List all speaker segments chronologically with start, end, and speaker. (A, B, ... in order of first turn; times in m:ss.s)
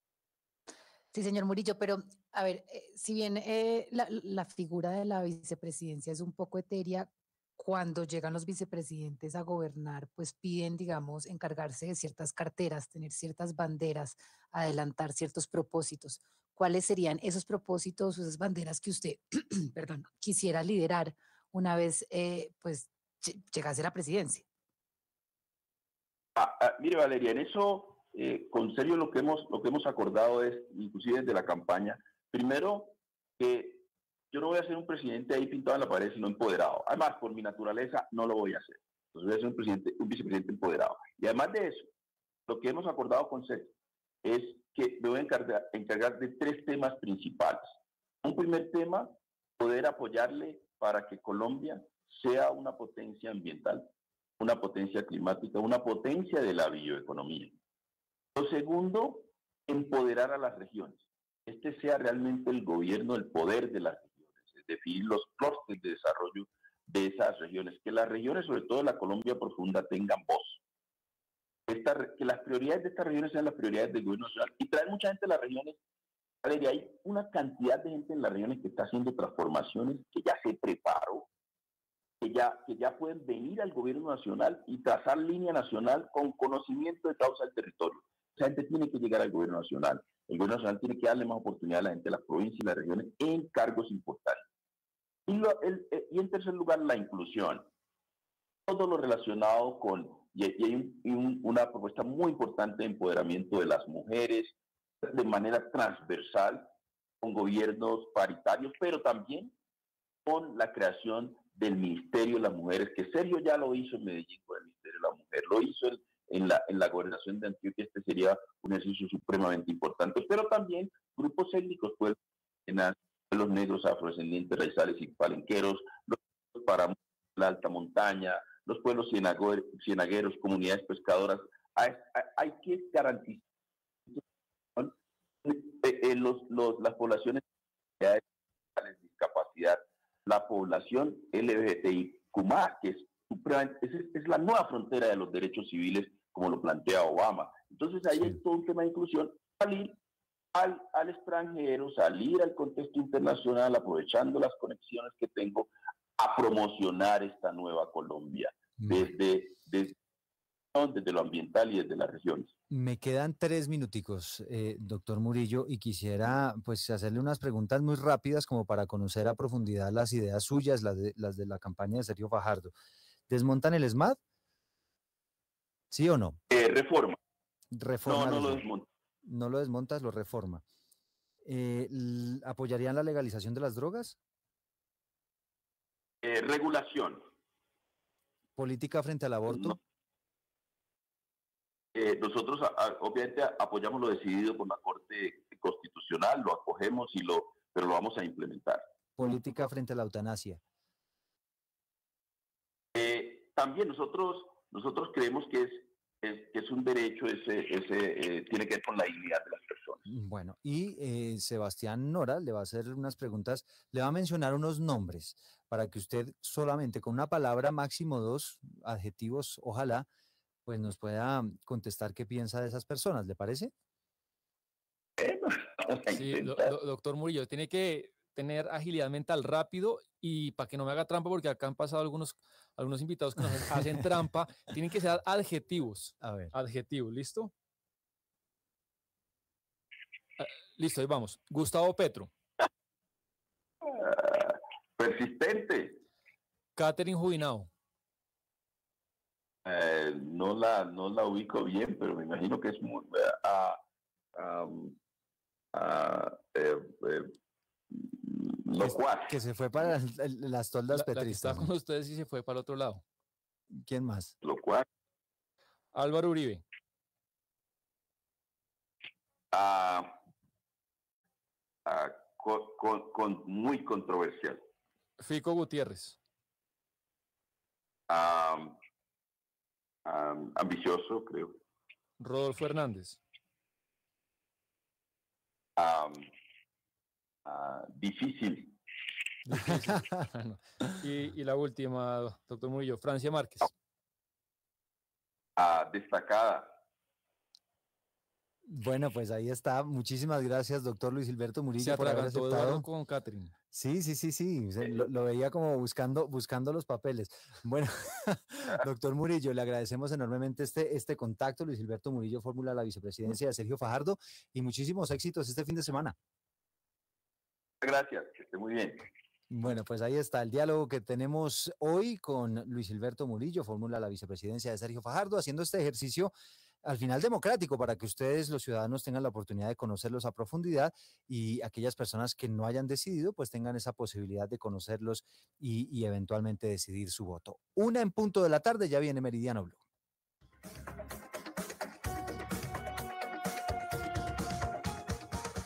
0:01.1-0:24.4 A
0:26.4-0:41.9 B
0:42.5-0:43.7 B
0:44.2-0:47.7 B
0:48.2-0:53.9 B
0:54.4-0:57.5 B
0:58.3-1:10.6 B
1:11.7-1:15.8 B
1:16.4-1:21.3 B
1:22.2-1:34.4 B
1:35.3-1:37.7 B
1:38.7-1:46.7 B
1:47.2-1:49.5 B
1:50.2-2:13.4 B
2:15.4-2:17.4 B
2:18.7-2:30.0 B
2:30.5-2:39.9 B
2:40.7-2:42.5 B
2:42.7-2:52.7 C
2:53.3-2:54.2 C
2:55.9-2:56.4 C
2:56.5-2:57.2 B
2:57.7-2:58.6 C
2:58.0-2:58.9 B
2:59.2-3:00.6 C
3:01.4-3:04.2 C
3:06.2-3:07.2 B
3:08.6-3:09.8 C
3:11.9-3:18.8 B
3:19.2-3:20.6 C
3:22.9-3:30.0 B
3:30.1-3:40.1 C
3:40.6-3:43.7 C
3:45.2-3:46.7 B
3:46.1-3:57.5 D
3:56.2-3:56.5 C
4:00.4-4:02.3 D
4:03.8-4:06.0 B
4:06.8-4:07.7 D
4:09.6-4:13.8 B
4:14.4-4:15.0 B
4:15.7-4:17.3 B
4:17.9-4:19.3 B
4:18.8-4:21.7 C
4:20.9-4:23.0 D
4:23.7-4:24.3 C
4:24.4-4:24.8 B
4:25.9-4:26.6 D
4:29.5-4:30.2 B
4:31.8-4:34.6 B
4:35.2-4:36.2 D
4:38.1-4:38.8 B
4:40.0-4:41.6 B
4:42.2-4:43.2 D
4:45.8-4:46.3 B
4:47.4-4:48.7 B
4:49.4-4:53.7 D
4:49.6-4:50.0 C
4:55.6-4:56.7 B
4:58.7-5:02.9 C
5:01.8-5:03.5 D
5:03.7-5:16.2 C
5:17.8-5:19.1 B
5:19.5-5:26.3 C
5:26.8-5:39.8 C